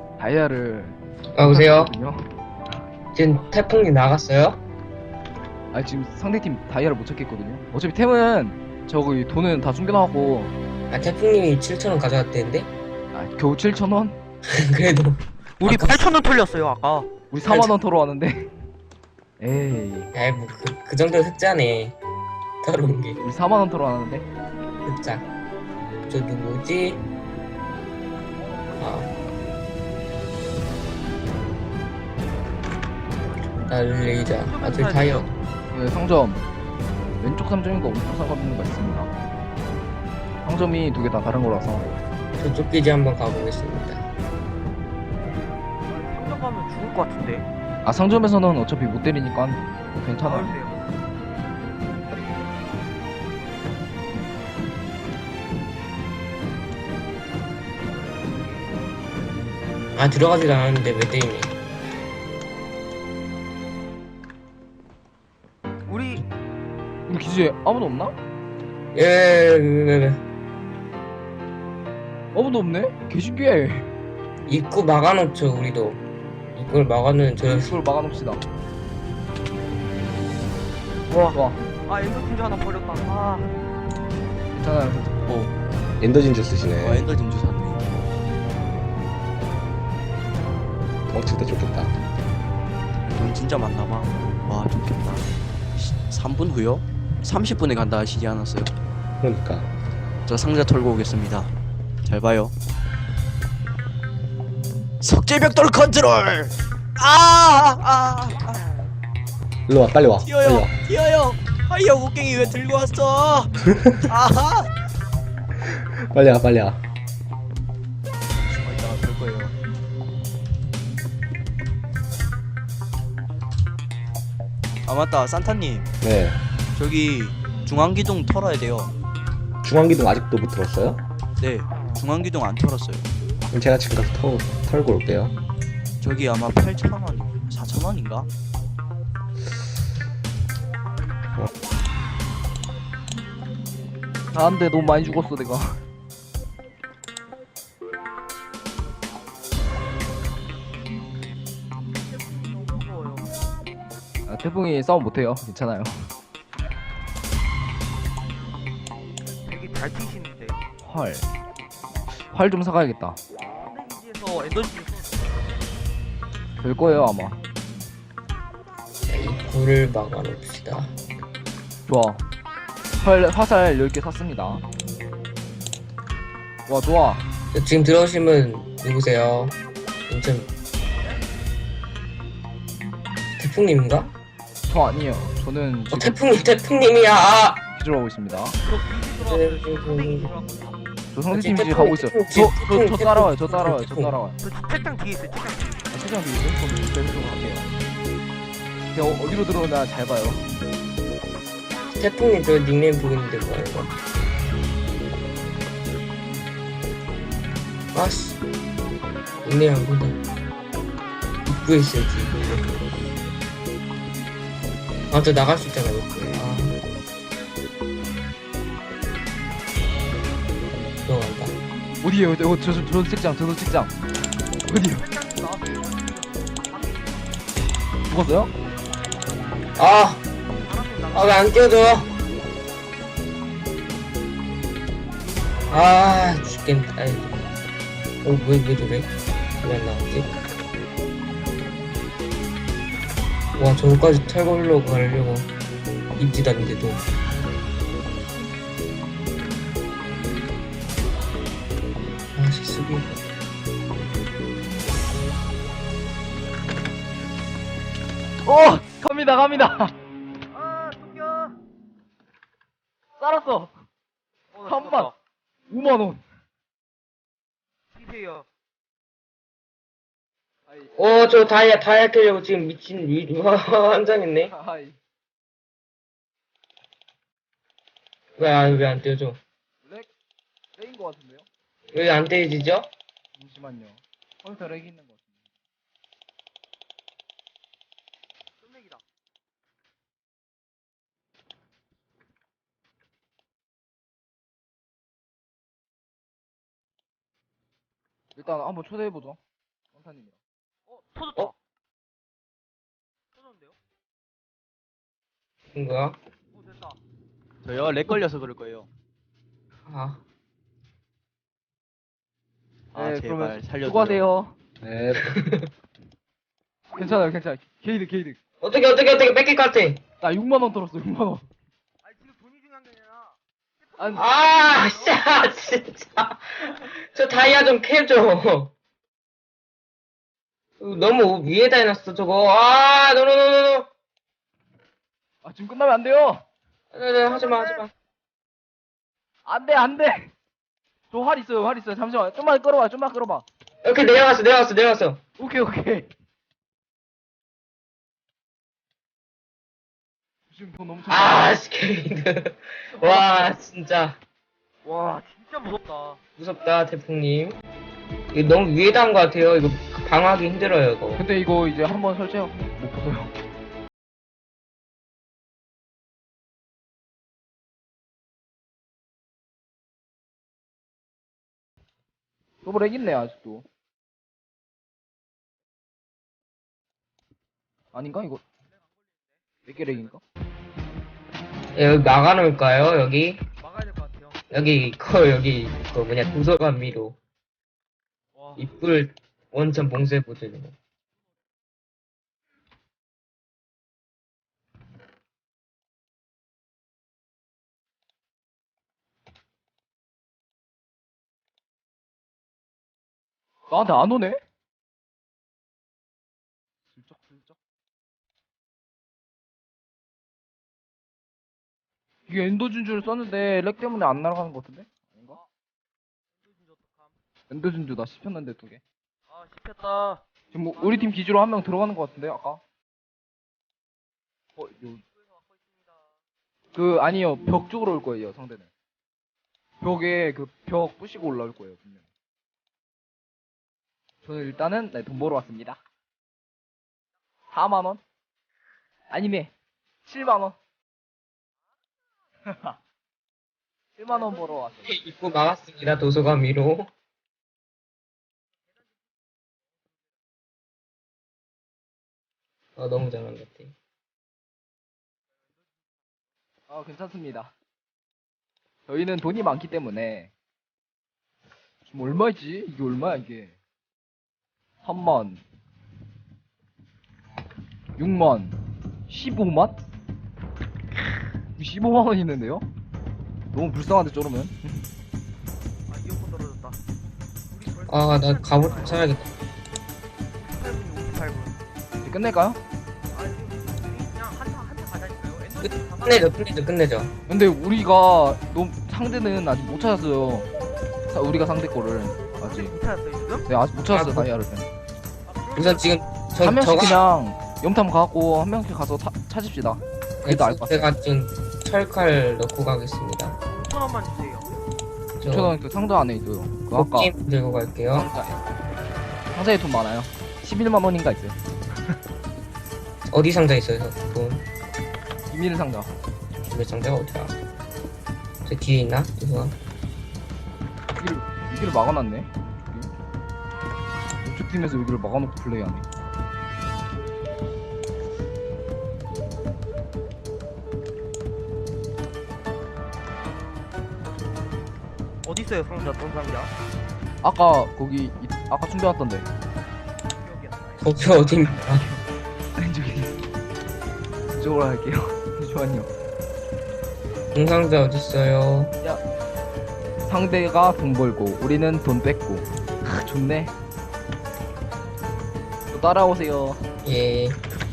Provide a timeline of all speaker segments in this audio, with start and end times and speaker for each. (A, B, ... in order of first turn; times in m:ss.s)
0:00.2-0:02.3 A
0:01.3-0:01.9 B
0:03.1-0:04.6 B
0:05.7-0:10.5 A
0:10.9-0:12.7 B
0:13.1-0:14.2 A
0:14.5-0:16.0 B
0:15.6-0:17.1 C
0:17.3-0:18.5 A
0:17.4-0:17.7 B
0:19.4-0:20.1 A
0:20.1-0:22.0 B
0:22.6-0:23.2 B
0:23.2-0:24.3 A
0:24.8-0:25.2 B
0:26.0-0:27.0 B
0:28.4-0:29.2 C
0:28.8-0:29.1 B
0:33.6-0:35.3 B
0:34.4-0:35.3 C
0:35.7-0:36.4 A
0:37.2-0:39.1 A
0:40.4-0:41.8 A
0:42.4-0:44.0 B
0:45.9-0:47.5 C
0:47.8-0:50.6 A
0:50.2-0:50.9 C
0:58.0-0:58.7 C
0:59.9-1:01.5 B
1:05.8-1:06.2 C
1:07.1-1:08.1 A
1:08.9-1:10.2 B
1:12.3-1:13.9 A
1:14.4-1:16.0 B
1:16.5-1:17.8 B
1:17.4-1:18.4 A
1:21.1-1:23.6 C
1:21.3-1:21.6 A
1:24.5-1:25.1 A
1:25.3-1:25.5 D
1:26.0-1:27.1 E
1:26.8-1:27.8 D
1:31.1-1:31.9 E
1:33.1-1:35.2 D
1:35.8-1:38.7 D
1:39.2-1:39.7 E
1:40.2-1:41.5 D
1:42.0-1:42.5 D
1:45.0-1:48.6 D
1:49.7-1:50.8 E
1:50.1-1:53.5 D
1:54.1-1:54.7 D
1:55.6-1:56.8 E
1:58.5-1:59.5 D
2:04.8-2:05.9 D
2:06.0-2:06.4 E
2:06.7-2:08.9 D
2:09.6-2:11.0 E
2:11.4-2:13.1 D
2:13.5-2:15.4 E
2:16.0-2:18.3 D
2:24.3-2:25.8 A
2:32.0-2:33.3 C
2:34.2-2:36.1 A
2:39.4-2:40.6 C
2:40.8-2:41.2 A
2:42.3-2:43.2 A
2:43.6-2:45.2 C
2:46.6-2:47.4 A
2:49.0-2:50.9 B
2:51.9-2:52.2 A
2:53.0-2:54.6 A
2:56.7-2:57.2 A
2:57.5-2:59.6 B
3:00.1-3:00.5 B
3:03.4-3:04.1 B
3:04.7-3:06.2 A
3:05.9-3:07.6 B
3:07.7-3:08.6 A
3:08.6-3:10.8 C
3:09.3-3:10.3 B
3:11.1-3:14.4 A
3:11.3-3:14.1 B
3:14.4-3:15.8 C
3:15.9-3:17.7 A
3:18.9-3:20.5 A
3:21.9-3:23.9 B
3:27.9-3:28.4 B
3:29.4-3:30.2 B
3:31.4-3:32.7 B
3:35.1-3:36.8 B
3:41.0-3:41.5 B
3:42.0-3:43.9 A
3:44.6-3:45.0 A
3:44.9-3:47.3 C
3:48.1-3:48.5 A
3:49.8-3:50.2 B
3:50.6-3:52.1 C
3:51.1-3:52.1 B
3:55.7-3:57.4 B
3:58.2-3:59.1 B
3:59.6-4:00.3 B
4:03.6-4:05.5 B
4:06.2-4:07.0 B
4:12.4-4:13.2 B
4:18.4-4:19.9 A
4:20.5-4:21.6 C
4:23.2-4:23.7 A
4:24.5-4:25.1 C
4:24.6-4:25.1 A
4:25.7-4:26.2 A
4:27.9-4:28.4 C
4:30.7-4:31.0 A
4:31.0-4:34.5 B
4:34.4-4:35.0 A
4:38.4-4:39.4 B
4:39.8-4:40.1 A
4:40.8-4:41.5 A
4:41.9-4:42.9 B
4:43.4-4:45.3 A
4:48.7-4:49.0 C
4:58.4-4:59.4 A
4:59.9-5:00.4 A
5:00.9-5:01.5 C
5:03.3-5:03.7 C
5:05.7-5:06.2 B
5:06.5-5:07.0 C
5:07.6-5:08.9 D
5:09.8-5:10.2 B
5:12.9-5:14.2 D
5:12.9-5:14.5 A
5:14.8-5:15.3 E
5:15.2-5:15.7 B
5:16.9-5:18.4 A
5:18.6-5:20.0 B
5:20.2-5:21.4 A
5:22.0-5:23.4 C
5:23.9-5:25.2 C
5:24.0-5:24.2 A
5:24.2-5:28.7 B
5:30.8-5:33.9 B
5:35.4-5:36.4 A
5:36.9-5:37.9 B
5:37.2-5:37.9 C
5:39.4-5:40.3 A
5:41.1-5:43.4 A
5:43.8-5:45.2 B
5:45.4-5:46.1 A
5:50.5-5:51.5 A
5:51.1-5:54.2 B
5:53.0-5:53.4 A
5:54.8-5:55.2 A
5:55.1-5:56.2 C
5:56.4-5:57.6 B
5:58.3-6:01.2 B
6:01.2-6:03.3 A
6:12.6-6:13.6 A
6:17.9-6:18.4 A
6:19.6-6:20.0 C
6:19.6-6:20.2 A
6:21.7-6:23.4 B
6:23.6-6:24.4 C
6:24.5-6:27.2 B
6:28.3-6:28.6 C
6:28.6-6:30.7 B
6:43.7-6:44.4 A
6:46.9-6:47.6 A
6:52.3-6:55.4 A
6:56.5-6:57.1 C
6:57.5-6:58.8 A
6:59.3-7:00.2 C
7:00.5-7:02.6 A
7:04.6-7:05.0 A
7:06.7-7:08.7 A
7:09.8-7:12.0 A
7:14.2-7:15.8 A
7:17.5-7:18.0 A
7:19.1-7:19.5 A
7:20.0-7:20.6 A
7:24.0-7:24.9 A
7:24.8-7:26.9 B
7:32.8-7:33.7 B
7:36.7-7:37.5 A
7:38.9-7:40.3 A
7:41.8-7:43.5 A
7:44.8-7:45.4 A
7:48.0-7:48.6 A
7:49.1-7:49.8 A
7:51.6-7:52.6 A
7:53.5-7:54.8 A
7:55.9-7:56.8 C
7:57.5-7:59.1 C
7:57.9-7:59.3 B
8:00.4-8:01.6 C
8:02.0-8:02.6 A
8:03.1-8:06.4 C
8:05.6-8:07.1 B
8:07.3-8:10.5 A
8:11.1-8:12.7 A
8:12.4-8:13.5 C
8:13.4-8:14.7 A
8:13.9-8:14.3 B
8:15.2-8:16.0 C
8:15.6-8:17.0 B
8:16.4-8:20.9 A
8:20.2-8:23.4 B
8:23.5-8:24.6 C
8:25.2-8:25.5 B
8:25.2-8:27.1 A
8:26.7-8:28.1 B
8:27.9-8:28.3 A
8:29.3-8:31.9 A
8:33.1-8:34.4 B
8:35.3-8:35.9 A
8:36.5-8:37.3 B
8:38.4-8:39.6 B
8:41.0-8:42.9 A
8:44.2-8:45.8 A
8:55.2-8:56.5 C
8:57.2-8:59.3 A
9:00.2-9:02.0 C
9:00.8-9:01.8 B
9:02.6-9:03.2 A
9:04.3-9:05.9 A
9:07.3-9:08.7 B
9:10.0-9:13.5 A
9:15.7-9:16.6 A
9:16.8-9:17.4 B